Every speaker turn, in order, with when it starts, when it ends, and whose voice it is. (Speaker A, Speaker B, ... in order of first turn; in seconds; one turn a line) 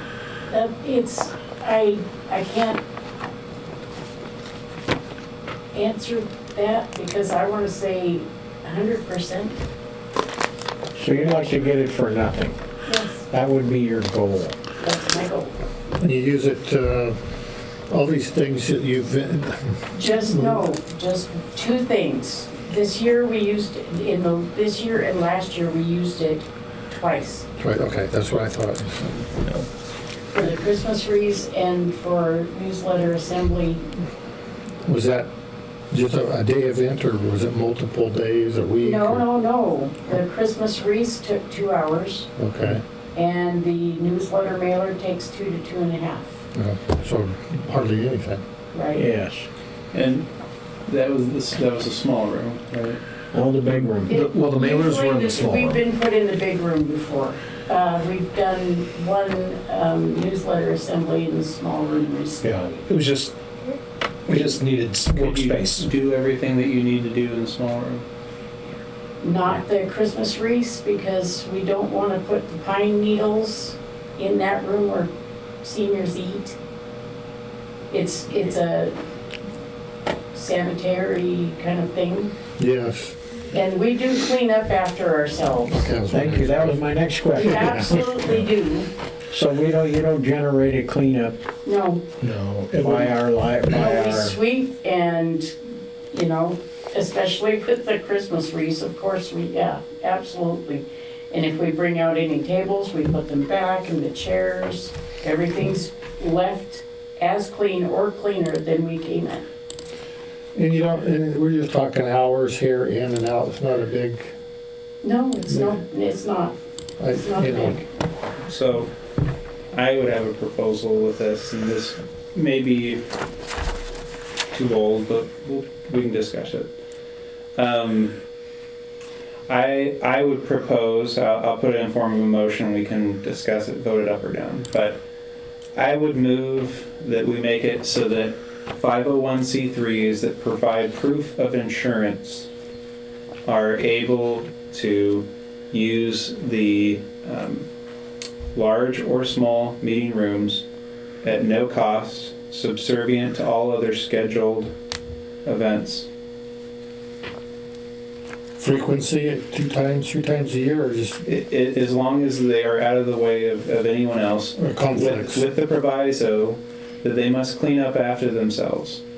Speaker A: 0.5-2.8
Speaker A: 5.7-9.6
Speaker B: 10.9-12.6
Speaker A: 12.8-13.3
Speaker B: 13.3-14.6
Speaker A: 14.8-15.5
Speaker C: 16.0-17.2
Speaker C: 17.9-20.6
Speaker A: 19.9-27.4
Speaker C: 27.6-29.3
Speaker A: 30.3-33.9
Speaker C: 34.8-35.3
Speaker C: 35.9-39.2
Speaker A: 38.8-42.3
Speaker C: 42.4-42.8
Speaker A: 43.1-46.4
Speaker C: 46.5-48.4
Speaker A: 48.7-49.0
Speaker B: 49.0-49.5
Speaker D: 49.9-50.3
Speaker D: 50.9-53.0
Speaker B: 53.3-54.2
Speaker A: 54.1-62.8
Speaker E: 54.1-55.8
Speaker E: 62.4-63.4
Speaker E: 64.3-65.9
Speaker D: 65.1-68.0
Speaker A: 69.2-75.1
Speaker A: 75.6-76.5
Speaker A: 77.9-79.0
Speaker A: 80.3-82.3
Speaker C: 82.6-83.2
Speaker A: 83.5-85.9
Speaker C: 85.7-88.4
Speaker B: 86.1-87.9
Speaker A: 87.3-88.9
Speaker B: 89.3-91.4
Speaker A: 91.6-92.0
Speaker E: 92.2-93.2
Speaker B: 92.7-94.3
Speaker A: 93.7-109.4
Speaker C: 110.5-114.3
Speaker A: 115.0-116.6
Speaker C: 117.0-117.8
Speaker A: 117.1-117.8
Speaker D: 118.5-118.9
Speaker D: 119.7-123.0
Speaker D: 124.5-126.7
Speaker D: 127.5-128.2
Speaker D: 129.5-135.0
Speaker D: 135.7-142.5
Speaker D: 143.4-147.7
Speaker D: 148.5-150.6
Speaker D: 151.2-154.7
Speaker D: 155.4-156.1
Speaker C: 158.6-161.2
Speaker D: 161.2-169.0
Speaker C: 164.6-165.4